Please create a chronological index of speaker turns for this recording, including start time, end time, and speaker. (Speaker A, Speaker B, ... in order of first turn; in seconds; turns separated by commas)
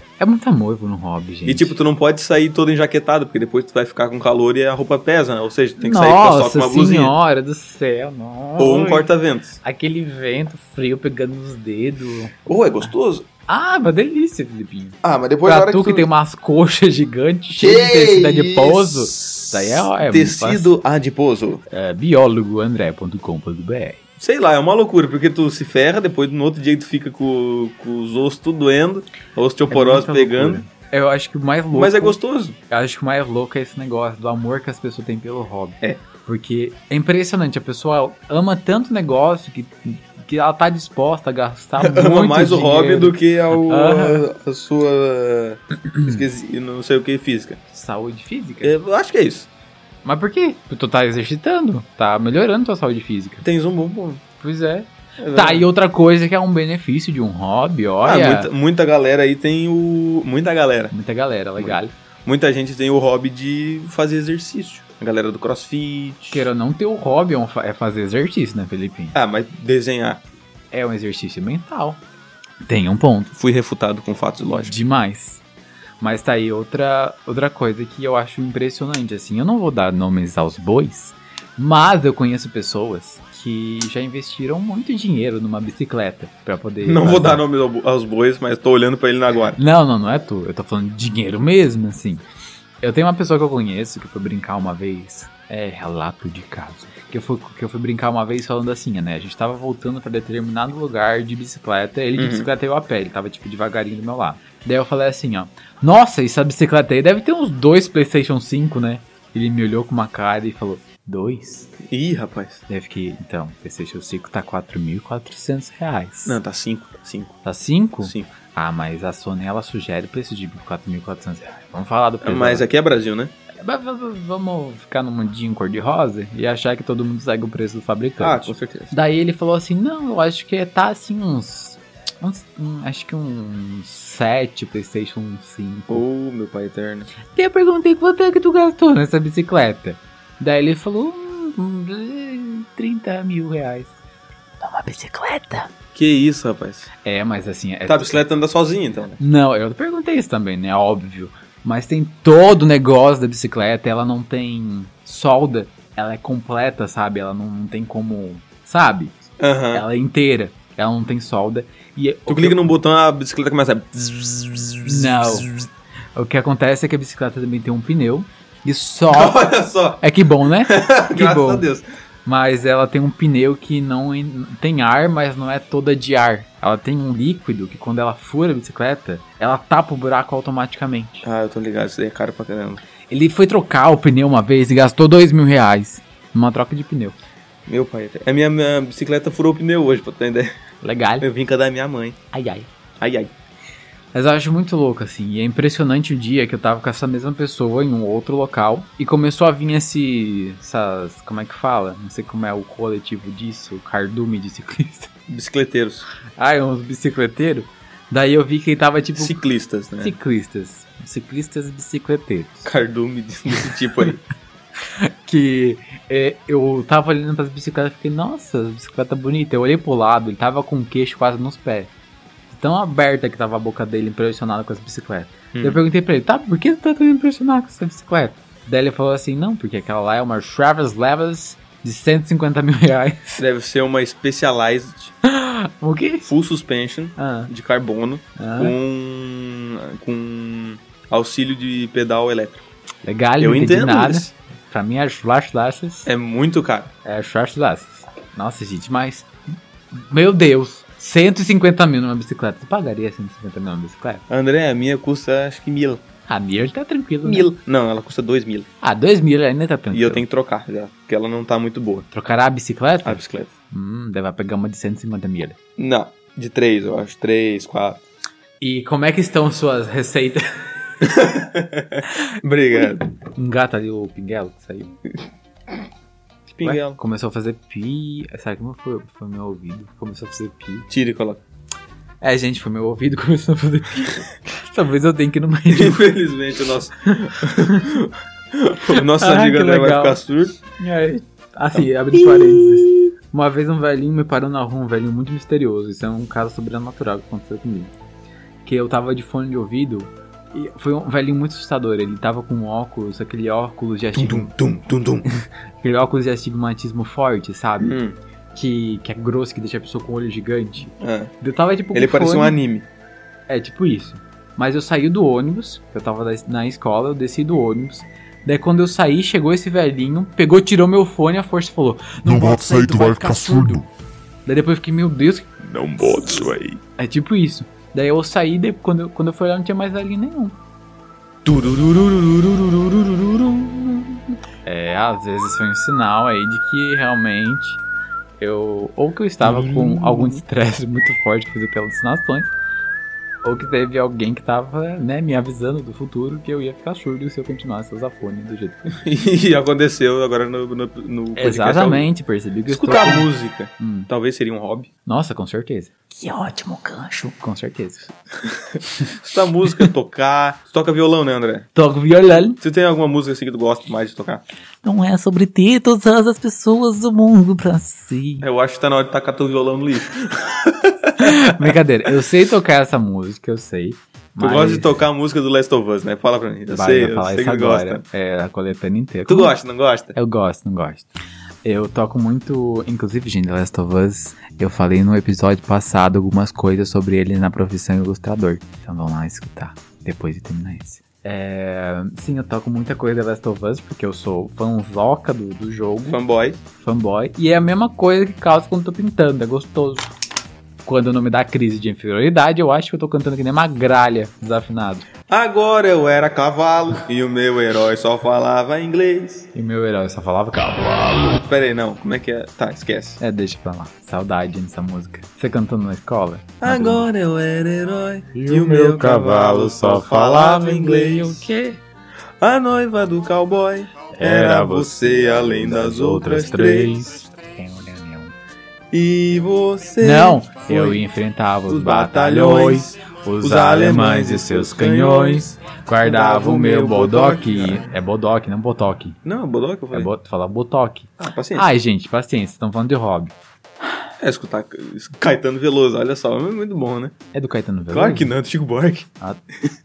Speaker A: 0.2-1.8, Speaker B: 1.4-7.1, Speaker A: 5.8-9.1, Speaker B: 8.6-9.6, Speaker A: 9.6-12.3, Speaker B: 12.4-13.2, Speaker A: 13.5-20.7, Speaker B: 15.0-16.1, Speaker B: 17.5-21.6, Speaker A: 21.7-24.0, Speaker B: 24.2-30.6, Speaker A: 29.7-44.2, Speaker B: 31.7-32.5, Speaker B: 41.8-47.6, Speaker A: 47.7-48.7, Speaker B: 48.6-49.5, Speaker A: 50.0-53.4, Speaker B: 53.4-54.2, Speaker A: 54.4-58.5, Speaker B: 55.2-55.7, Speaker B: 58.0-60.9, Speaker A: 60.9-61.9, Speaker B: 61.6-66.4, Speaker A: 66.3-69.2, Speaker B: 69.1-70.2, Speaker A: 70.7-72.0, Speaker A: 72.6-73.3, Speaker B: 73.3-74.8, Speaker A: 74.5-75.4, Speaker A: 76.0-87.4, Speaker B: 86.8-89.6, Speaker A: 89.5-92.2, Speaker A: 92.8-111.7, Speaker B: 102.2-102.5, Speaker B: 111.8-112.6, Speaker A: 112.7-116.4, Speaker B: 116.2-117.3, Speaker A: 117.4-122.7, Speaker B: 118.0-118.3, Speaker B: 122.2-123.3, Speaker A: 123.6-136.0, Speaker B: 128.2-128.9, Speaker B: 135.9-137.1, Speaker A: 137.3-143.9, Speaker A: 144.6-145.7, Speaker B: 145.9-146.9, Speaker A: 147.0-148.2, Speaker B: 147.9-149.2, Speaker A: 149.2-162.7, Speaker B: 159.4-159.8, Speaker B: 162.3-165.5, Speaker A: 164.8-165.5, Speaker A: 166.1-171.7, Speaker B: 169.1-170.0, Speaker B: 170.6-171.8, Speaker A: 172.2-181.2, Speaker B: 181.2-182.8, Speaker A: 183.1-187.2, Speaker B: 187.7-190.5, Speaker A: 190.8-191.2, Speaker B: 191.2-192.2, Speaker A: 192.3-192.7, Speaker B: 193.0-193.3, Speaker A: 194.1-205.1, Speaker B: 205.3-206.0, Speaker A: 206.4-209.4, Speaker B: 209.2-210.1, Speaker A: 210.0-212.7, Speaker B: 212.6-214.2, Speaker A: 214.8-221.9, Speaker A: 222.5-233.4, Speaker B: 225.5-225.8, Speaker B: 233.3-235.1, Speaker A: 235.2-236.3, Speaker B: 236.2-242.7, Speaker A: 237.2-237.5, Speaker A: 238.4-238.7, Speaker A: 243.0-246.1, Speaker B: 243.4-244.3, Speaker B: 246.1-246.9, Speaker A: 247.0-249.3, Speaker A: 249.9-254.2, Speaker B: 254.3-256.0, Speaker A: 256.3-257.5, Speaker B: 257.2-258.7, Speaker A: 258.8-260.2, Speaker B: 259.9-262.1, Speaker A: 262.1-265.6, Speaker B: 263.0-263.5, Speaker B: 265.8-268.0, Speaker A: 268.6-270.4, Speaker B: 271.0-273.1, Speaker A: 273.3-274.9, Speaker B: 276.5-277.0, Speaker A: 276.6-280.9, Speaker B: 280.9-281.4, Speaker A: 282.2-286.0, Speaker B: 285.7-290.6, Speaker A: 288.9-297.9, Speaker B: 291.8-292.7, Speaker A: 298.6-304.5, Speaker B: 304.1-305.3, Speaker A: 305.8-308.0, Speaker B: 307.8-308.2, Speaker A: 308.5-312.6, Speaker B: 311.0-311.3, Speaker B: 311.9-312.9, Speaker A: 313.5-323.9, Speaker A: 324.4-330.6, Speaker B: 325.6-326.8, Speaker B: 331.4-334.2, Speaker A: 334.6-337.8, Speaker A: 338.4-342.5, Speaker B: 339.4-340.4, Speaker A: 343.4-348.8, Speaker B: 348.9-352.1, Speaker A: 351.4-354.1, Speaker B: 352.7-354.9, Speaker A: 355.1-358.1, Speaker B: 358.7-361.7, Speaker A: 361.7-362.6, Speaker B: 362.6-364.4, Speaker A: 364.8-368.4, Speaker B: 368.4-371.7, Speaker A: 371.2-375.0, Speaker B: 374.4-378.0, Speaker A: 376.7-379.5, Speaker B: 379.3-380.1, Speaker A: 380.1-381.1, Speaker A: 381.6-396.2, Speaker B: 396.1-396.6, Speaker A: 396.8-400.1, Speaker A: 400.8-405.1, Speaker B: 405.3-409.5, Speaker A: 409.5-411.4, Speaker B: 411.4-413.2, Speaker A: 413.2-417.1, Speaker B: 416.6-421.4, Speaker A: 418.3-421.8, Speaker B: 422.4-427.0, Speaker A: 424.1-428.3, Speaker B: 428.9-431.0, Speaker A: 430.0-439.2, Speaker B: 431.7-437.8, Speaker B: 439.2-440.1, Speaker A: 439.9-443.3, Speaker B: 441.2-441.7, Speaker B: 444.2-447.1, Speaker A: 447.3-448.3, Speaker B: 447.9-449.1